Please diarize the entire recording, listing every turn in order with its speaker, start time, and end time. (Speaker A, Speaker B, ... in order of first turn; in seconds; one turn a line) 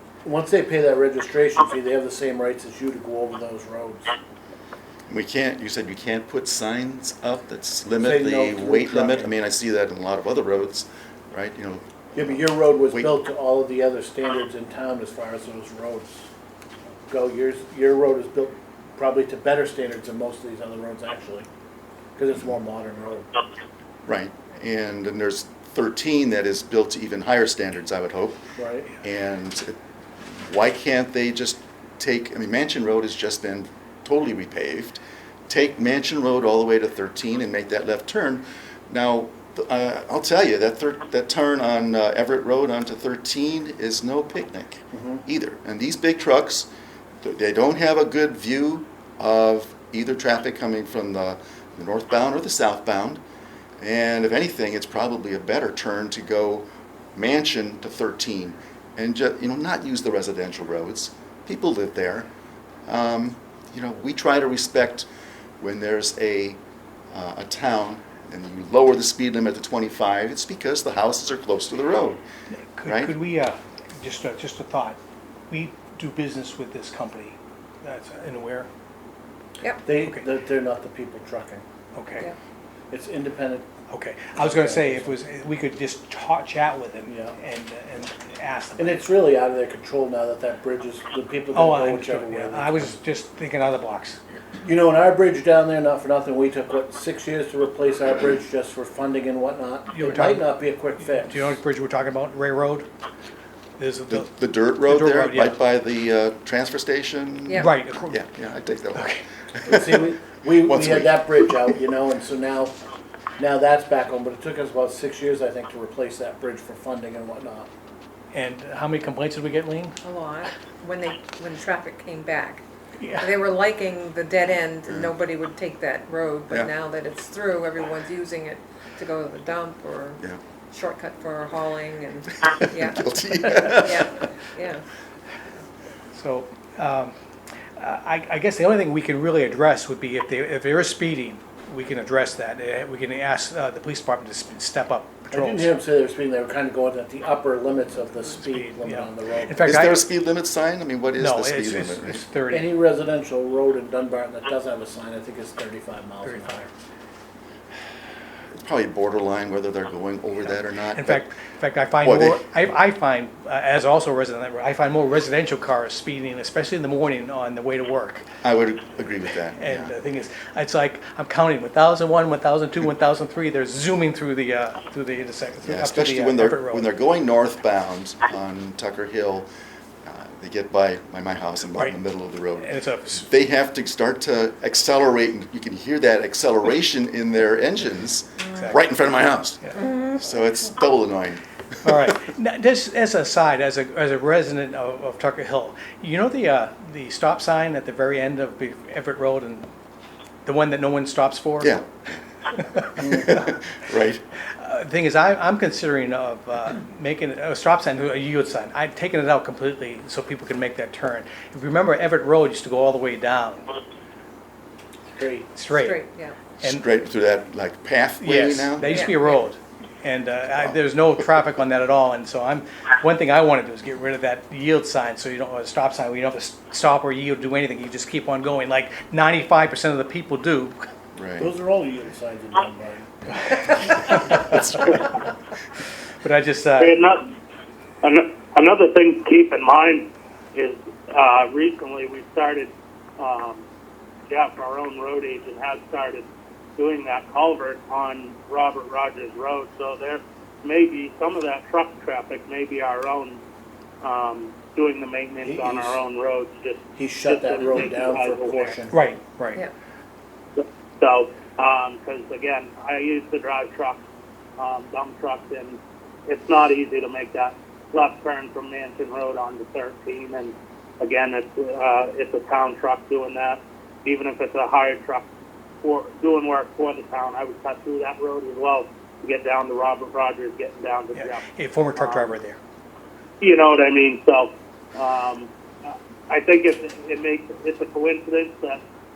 Speaker A: 0.2-4.2
Speaker B: 5.1-13.1
Speaker A: 8.0-9.3
Speaker A: 12.2-16.2
Speaker A: 17.1-21.5
Speaker A: 22.2-23.3
Speaker B: 24.1-28.4
Speaker A: 28.6-28.9
Speaker B: 29.0-46.7
Speaker A: 44.9-45.2
Speaker B: 47.2-53.2
Speaker B: 53.8-62.3
Speaker B: 62.9-65.1
Speaker B: 65.6-66.6
Speaker B: 67.1-72.2
Speaker C: 72.5-75.0
Speaker B: 72.9-73.2
Speaker C: 75.5-78.7
Speaker A: 79.8-81.6
Speaker C: 82.0-82.3
Speaker A: 82.9-83.7
Speaker C: 83.9-89.0
Speaker A: 84.4-85.2
Speaker A: 87.1-87.4
Speaker A: 88.8-93.0
Speaker C: 91.5-94.2
Speaker A: 94.6-101.6
Speaker C: 99.9-100.5
Speaker C: 101.1-102.9
Speaker C: 103.8-105.6
Speaker B: 104.1-111.7
Speaker C: 107.6-108.2
Speaker C: 109.0-109.2
Speaker A: 109.7-112.8
Speaker A: 113.4-117.7
Speaker C: 118.3-120.0
Speaker D: 120.0-122.6
Speaker C: 123.0-123.3
Speaker D: 123.2-133.0
Speaker B: 124.9-125.1
Speaker B: 132.5-134.1
Speaker D: 133.7-134.8
Speaker C: 136.1-137.2
Speaker C: 137.8-145.7
Speaker A: 145.3-149.6
Speaker C: 148.3-150.1
Speaker B: 149.6-152.2
Speaker C: 151.2-152.7
Speaker A: 152.5-156.7
Speaker C: 156.2-156.6
Speaker B: 158.5-161.2
Speaker C: 160.9-168.3
Speaker B: 162.0-162.4
Speaker B: 168.4-169.9
Speaker C: 169.6-176.9
Speaker B: 175.7-179.5
Speaker B: 180.0-192.2
Speaker C: 182.6-183.3
Speaker C: 188.5-188.8
Speaker D: 189.8-190.2
Speaker C: 191.8-199.7
Speaker C: 200.4-201.8
Speaker B: 201.6-202.2
Speaker C: 202.6-203.3
Speaker B: 203.0-204.2
Speaker C: 204.6-213.7
Speaker A: 215.1-215.5
Speaker C: 215.6-216.0
Speaker D: 215.7-216.4
Speaker B: 216.6-219.2
Speaker C: 218.2-230.9
Speaker D: 218.8-219.4
Speaker B: 231.2-231.5
Speaker A: 231.4-233.1
Speaker C: 233.5-235.0
Speaker A: 233.9-234.4
Speaker B: 234.4-235.1
Speaker C: 236.2-237.0
Speaker E: 236.8-237.3
Speaker E: 238.0-243.6
Speaker E: 244.3-253.4
Speaker E: 254.0-258.8
Speaker A: 255.4-256.0
Speaker A: 257.0-259.0
Speaker C: 258.9-259.6
Speaker E: 260.6-264.0
Speaker E: 264.6-275.3
Speaker E: 275.8-282.3
Speaker C: 281.1-282.6
Speaker E: 283.4-288.8